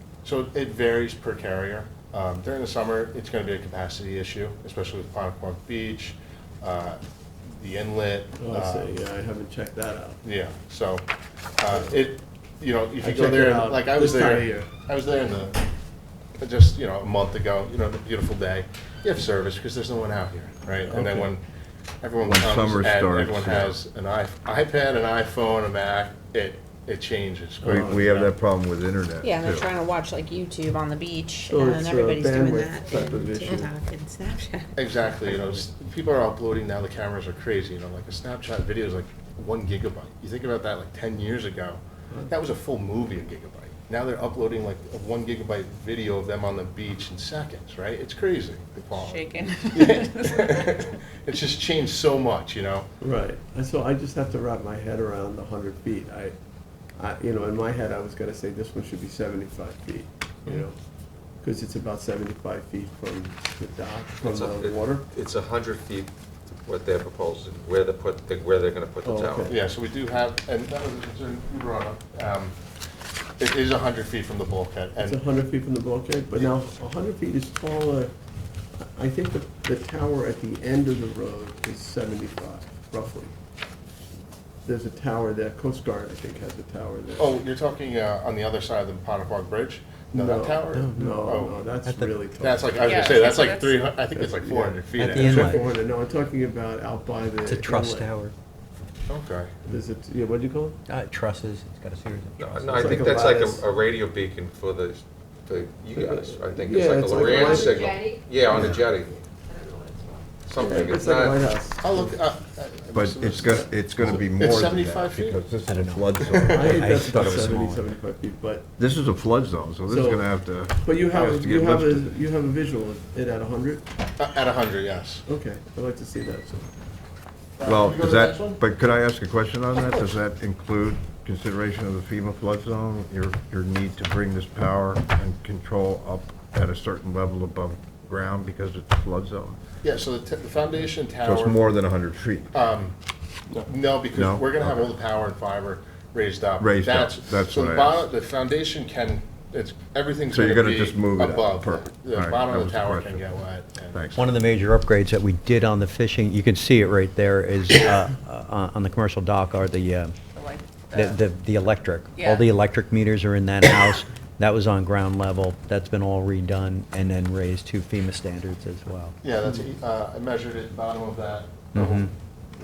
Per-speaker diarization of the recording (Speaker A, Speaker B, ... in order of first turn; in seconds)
Speaker A: 0.2-7.0, 7.6-8.9, 10.2-11.1, 11.6-15.6, 16.4-21.4, 22.0-28.4, 34.8-52.9, 69.5-72.5, 73.4-75.2, 87.2-91.6, 92.4-95.6, 99.1-99.5, 111.8-115.4, 116.2-116.7, 124.2-125.2, 127.6-128.6, 129.8-130.1, 139.8-141.6, 142.5-142.9, 143.6-154.2, 169.2-172.1
Speaker B: 8.4-10.2, 13.0-14.7, 20.8-21.3, 27.6-28.1, 31.5-33.7, 35.2-35.6, 53.0-56.3, 57.0-60.8, 61.4-65.0, 69.0-69.6, 75.0-78.1, 78.8-83.3, 84.6-87.3, 90.1-92.8, 94.1-98.1, 99.6-100.8, 102.7-103.6, 105.9-107.9, 110.6-112.2, 116.5-118.7, 119.9-120.2, 120.8-123.8, 125.3-126.7
Speaker C: 22.2-23.8, 27.6-29.7, 108.6-108.8, 112.9-117.1, 118.8-122.1, 127.6-139.6, 141.2-142.5, 144.1-144.9, 146.6-148.0, 150.3-153.4, 153.9-154.2
Speaker D: 29.2-34.8, 107.4-108.1, 109.5-110.1
Speaker E: 48.9-50.6, 92.8-93.9, 160.3-161.2, 162.1-162.4
Speaker F: 64.2-66.1, 66.6-69.5, 102.4-109.1, 110.5-111.4
Speaker G: 90.7-91.2, 91.8-92.2, 95.0-95.6, 97.4-98.3, 100.9-103.2, 115.6-117.8, 154.2-160.1, 160.9-169.2, 171.7-172.1